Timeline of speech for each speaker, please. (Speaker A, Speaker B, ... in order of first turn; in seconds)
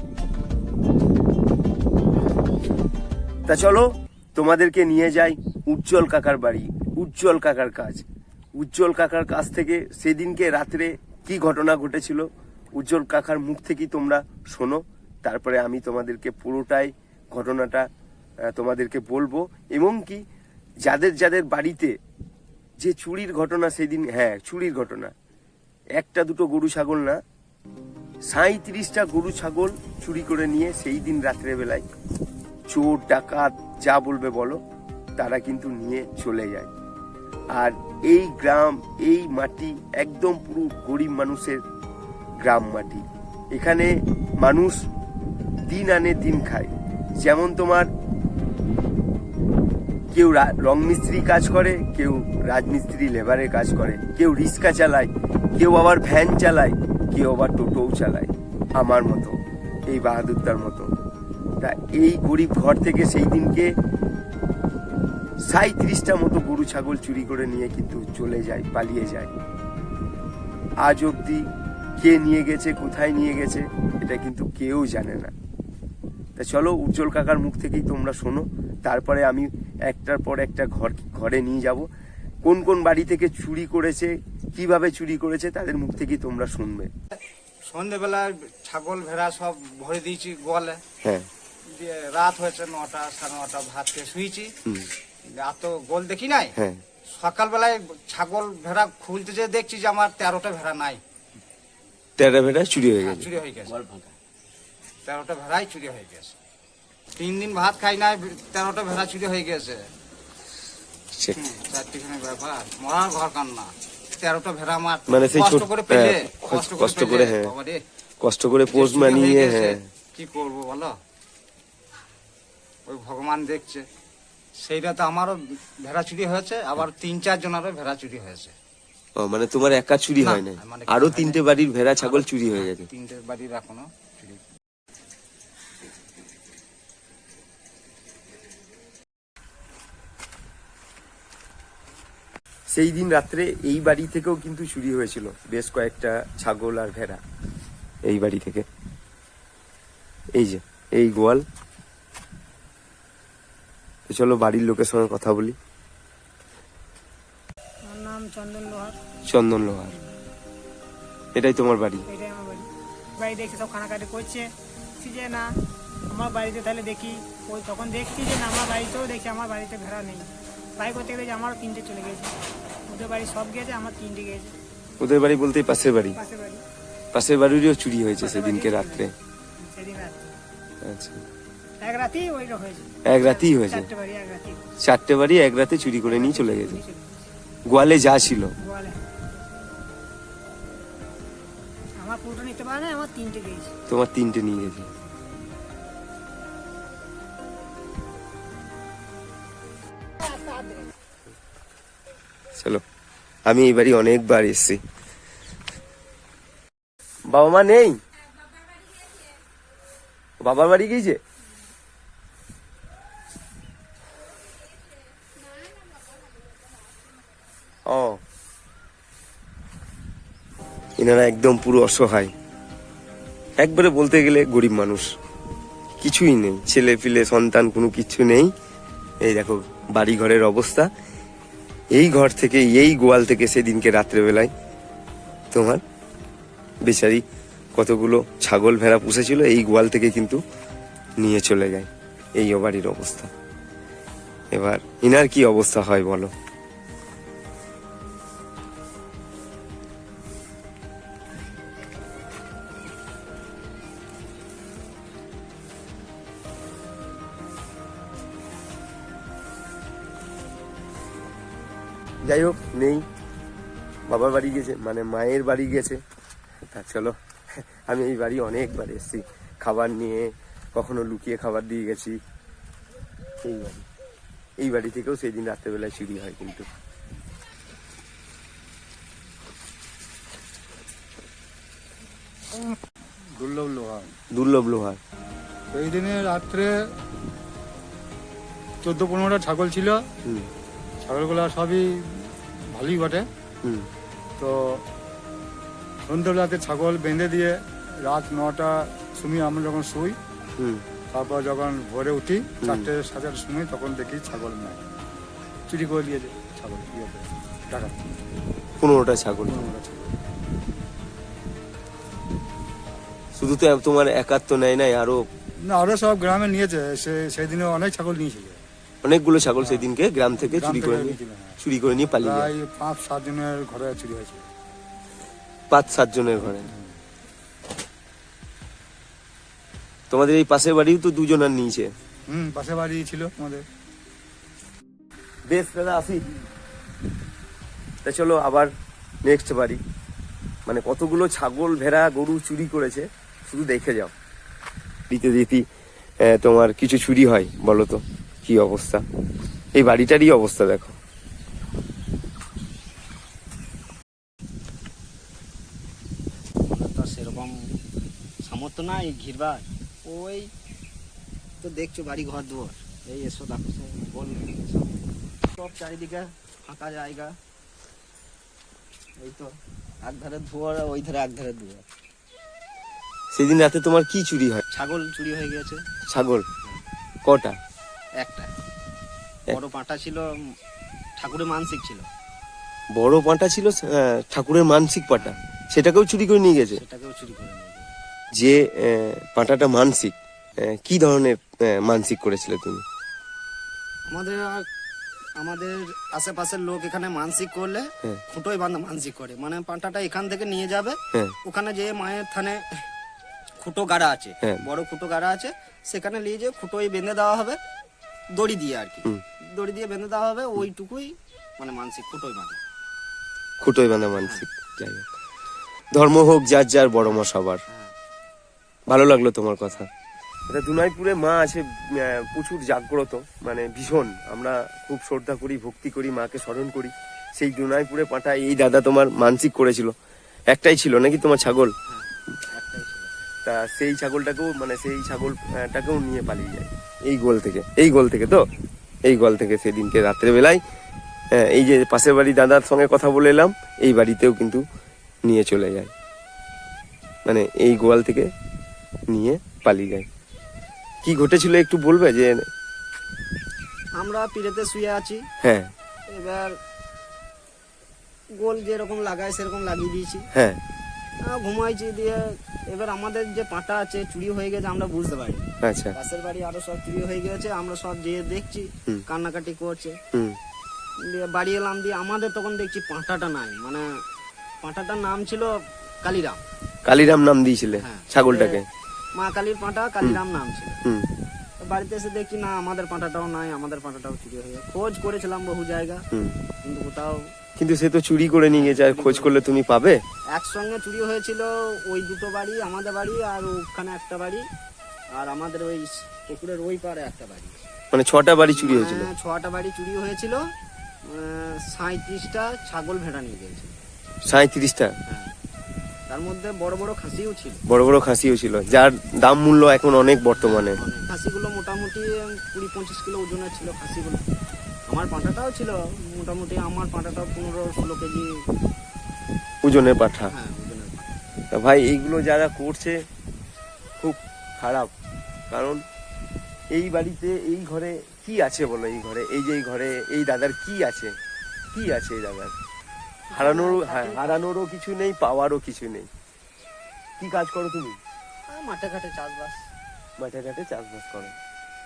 Speaker A: 3.5-17.9, 18.5-20.2, 20.8-21.9, 22.8-25.1, 26.0-27.2, 28.3-31.9, 32.7-34.6, 35.2-36.7, 37.5-41.6, 42.4-44.9, 45.7-47.9, 50.1-59.4, 59.9-60.9, 61.6-63.7, 65.5-69.3, 70.8-71.5, 72.0-75.3, 76.4-81.9, 82.4-86.9, 91.0-91.3, 94.7-94.9, 96.6-96.8, 102.2-103.3, 111.1-111.4, 115.1-117.6, 118.2-119.9, 129.2-132.9, 142.7-147.2, 148.1-148.7, 150.4-151.4, 154.1-155.6, 159.3-160.0, 161.3-162.1, 175.0-176.2, 177.1-179.1, 180.8-181.2, 183.1-183.9, 184.8-186.8, 187.7-188.5, 193.9-194.9, 202.6-202.8, 203.5-204.8, 207.3-208.0, 210.4-211.2, 217.9-218.2, 221.0-222.3, 223.6-225.1, 226.0-228.5, 229.2-230.9, 231.9-234.5, 235.5-235.8, 236.8-237.2, 237.8-240.4, 241.2-243.3, 244.5-246.3, 262.2-263.1, 264.1-266.0, 266.6-272.2, 273.4-273.9, 274.6-276.7, 284.3-285.0, 300.6-300.8, 302.6-302.9, 308.8-309.5, 313.4-315.2, 319.0-322.5, 325.7-326.7, 330.1-331.9, 335.5-336.2, 338.0-338.7, 339.2-339.8, 340.7-344.1, 345.1-345.6, 346.2-349.0, 349.7-351.0, 373.3-374.6, 376.1-376.4, 377.2-377.6, 383.0-386.8, 388.3-392.8, 413.6-415.1, 415.9-417.6, 418.9-419.9, 420.5-429.9, 430.5-431.7, 433.4-438.4, 439.1-440.6, 441.3-444.6, 445.2-445.9, 447.3-448.3, 449.1-450.1, 451.0-452.4, 455.4-455.7, 460.3-460.6, 465.6-465.9, 476.9-478.6, 480.9-481.1, 486.1-486.4, 487.6-490.0, 497.9-499.1, 504.3-504.9, 507.7-510.8, 519.6-520.3, 521.5-523.0, 524.0-524.9, 525.5-525.8, 526.7-531.1, 531.7-532.5, 533.3-536.1, 537.2-538.0, 540.2-541.4
Speaker B: 87.7-90.8, 91.7-94.5, 95.4-96.5, 97.2-101.0, 103.0-103.7, 105.1-106.4, 107.2-109.8, 111.4-117.8, 118.7-121.0, 122.9-123.8, 124.6-128.5, 130.2-131.4, 132.0-134.4
Speaker C: 157.9-158.9, 162.1-162.7, 163.2-165.4, 166.1-172.3, 172.9-174.5, 176.2-176.6, 178.2-180.3, 181.8-184.6, 185.9-187.3, 188.6-189.0, 192.0-193.7, 200.2-200.8
Speaker D: 283.4-284.1, 285.7-286.7, 288.8-290.0, 291.1-293.2, 296.1-297.5, 298.1-300.2, 301.1-304.9, 305.7-308.0, 309.6-310.1, 315.7-318.6, 320.7-321.6, 322.3-324.5, 332.3-333.6
Speaker E: 356.7-357.6, 358.4-360.5, 361.6-367.3, 369.2-369.5, 370.0-371.9, 374.7-375.8, 378.2-378.5, 379.5-380.3, 381.2-382.1, 385.1-385.4, 386.7-387.9, 394.1-394.6, 395.4-402.9, 403.6-407.6, 408.3-412.6, 414.1-414.4, 417.0-417.9, 431.9-433.1, 454.0-455.2, 456.1-456.5, 458.4-460.3, 461.2-470.0, 471.1-473.8, 474.6-475.5, 476.0-476.4, 477.8-478.6, 479.1-480.8, 481.6-486.0, 486.6-487.3, 488.5-489.4, 490.3-494.4, 495.1-497.6, 498.5-500.4, 501.1-503.8, 506.1-507.6, 510.4-514.2, 514.9-518.3, 520.3-521.1, 533.3-534.3, 538.5-539.6